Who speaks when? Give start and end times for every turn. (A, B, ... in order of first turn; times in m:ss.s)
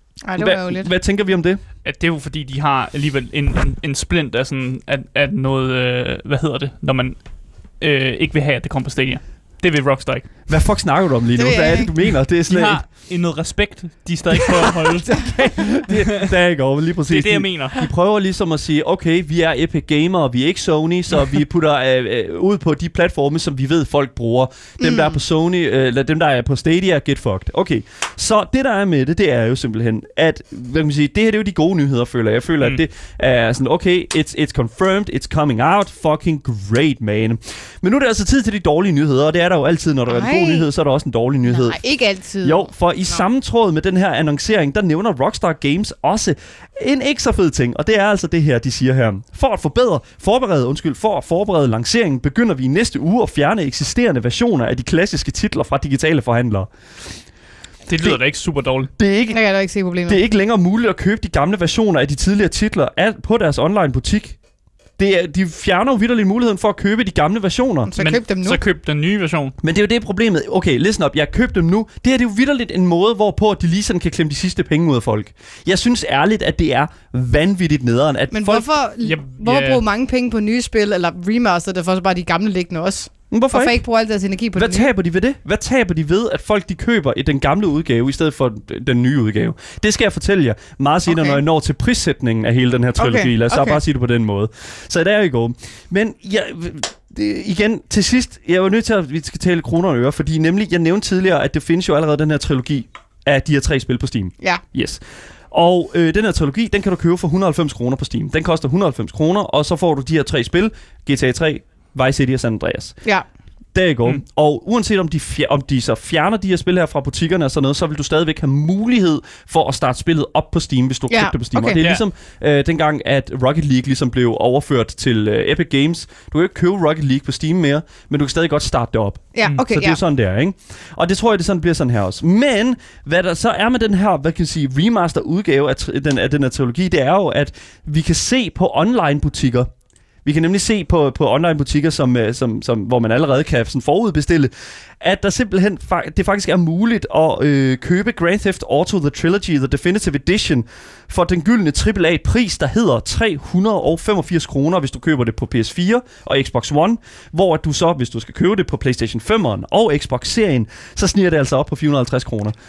0:00.2-0:00.9 A
0:00.4-0:01.6 B
0:01.8-0:10.3 C
0:10.5-0:12.8 B
0:11.4-0:11.9 A
0:12.4-0:16.3 C
0:14.9-0:41.8 B
0:17.1-0:17.9 C
0:24.8-0:25.2 A
0:40.1-0:40.7 A
0:41.4-0:43.2 A
0:42.4-0:56.7 B
0:57.9-0:58.9 C
0:59.0-0:59.4 B
0:59.3-1:00.2 A
1:00.1-1:04.4 B
1:05.0-1:07.9 B
1:07.9-1:08.6 A
1:08.0-1:09.5 C
1:09.6-1:18.7 B
1:18.3-1:24.9 A
1:19.0-1:19.8 C
1:23.3-1:23.8 B
1:24.6-1:53.0 B
1:31.1-1:31.4 A
1:33.0-1:33.8 A
1:53.7-2:19.7 B
2:01.1-2:01.8 A
2:09.3-2:10.0 A
2:20.2-2:42.6 B